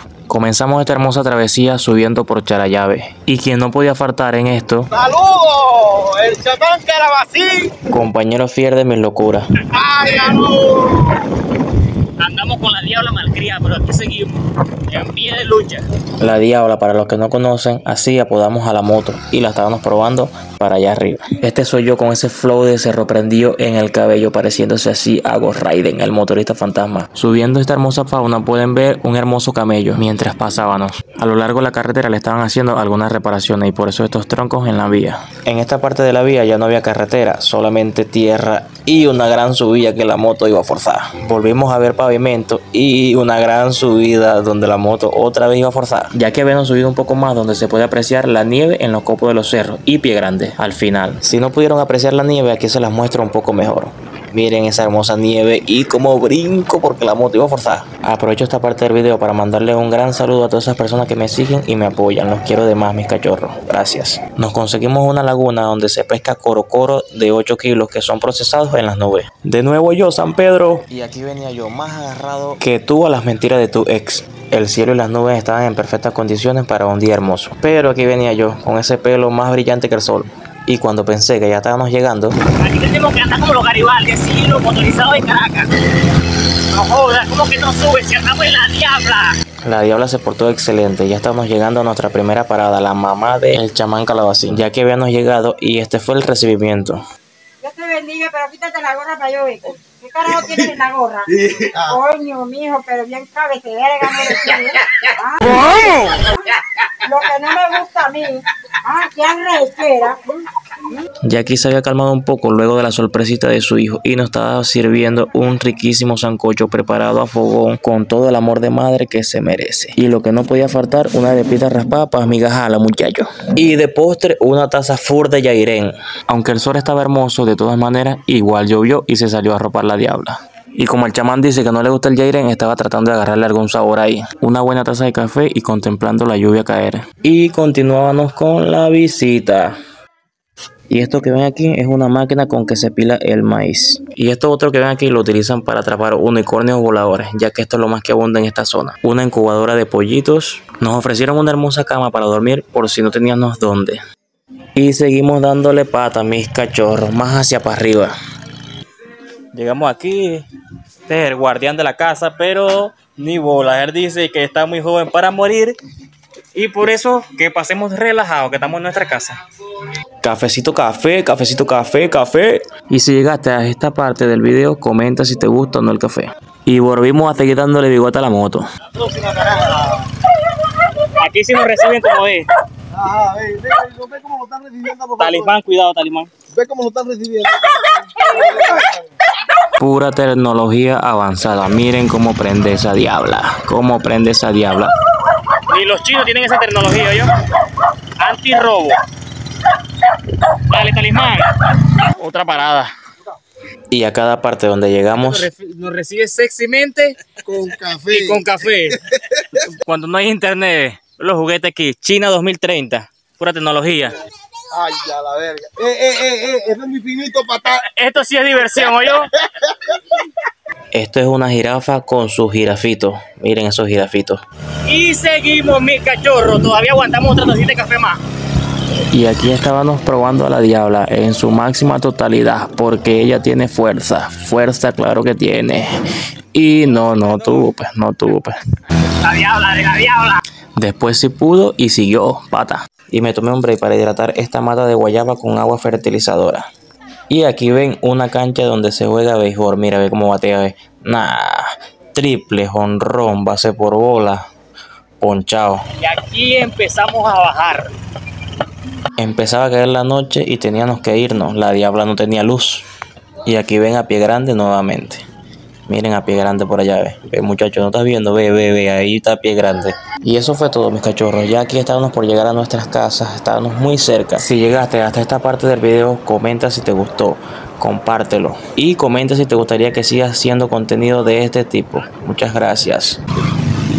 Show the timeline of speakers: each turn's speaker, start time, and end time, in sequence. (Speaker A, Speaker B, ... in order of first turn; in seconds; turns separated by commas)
Speaker A: 0.3-4.9, Speaker B: 4.9-7.8, Speaker A: 7.9-9.5, Speaker B: 9.7-11.2, Speaker C: 12.2-15.8, Speaker A: 16.2-82.4, Speaker C: 82.6-85.7, Speaker C: 86.7-89.3, Speaker A: 89.6-97.0, Speaker D: 97.6-110.5, Speaker A: 111.2-139.8, Speaker A: 140.9-154.0, Speaker A: 154.8-158.1, Speaker C: 159.5-160.4, Speaker C: 161.1-165.8, Speaker C: 166.6-169.4, Speaker A: 170.2-178.6, Speaker B: 179.0-180.1, Speaker C: 181.2-182.5, Speaker B: 182.9-185.6, Speaker C: 185.2-186.3, Speaker B: 186.5-189.0, Speaker A: 189.8-194.9, Speaker C: 195.7-197.3, Speaker C: 198.2-199.0, Speaker C: 200.7-201.5, Speaker C: 202.1-202.9, Speaker A: 203.9-205.5, Speaker C: 205.2-207.2, Speaker B: 207.4-208.4, Speaker C: 208.1-209.0, Speaker C: 209.5-214.2, Speaker B: 214.7-217.8, Speaker C: 217.8-219.3, Speaker A: 220.9-224.4, Speaker C: 224.8-228.2, Speaker A: 229.1-235.9, Speaker A: 236.5-238.6, Speaker C: 236.8-237.7, Speaker C: 239.1-240.4, Speaker A: 240.8-246.7, Speaker A: 247.3-254.4, Speaker A: 255.2-255.8, Speaker C: 256.0-257.9, Speaker A: 259.2-262.9, Speaker A: 263.5-265.2, Speaker A: 265.9-283.2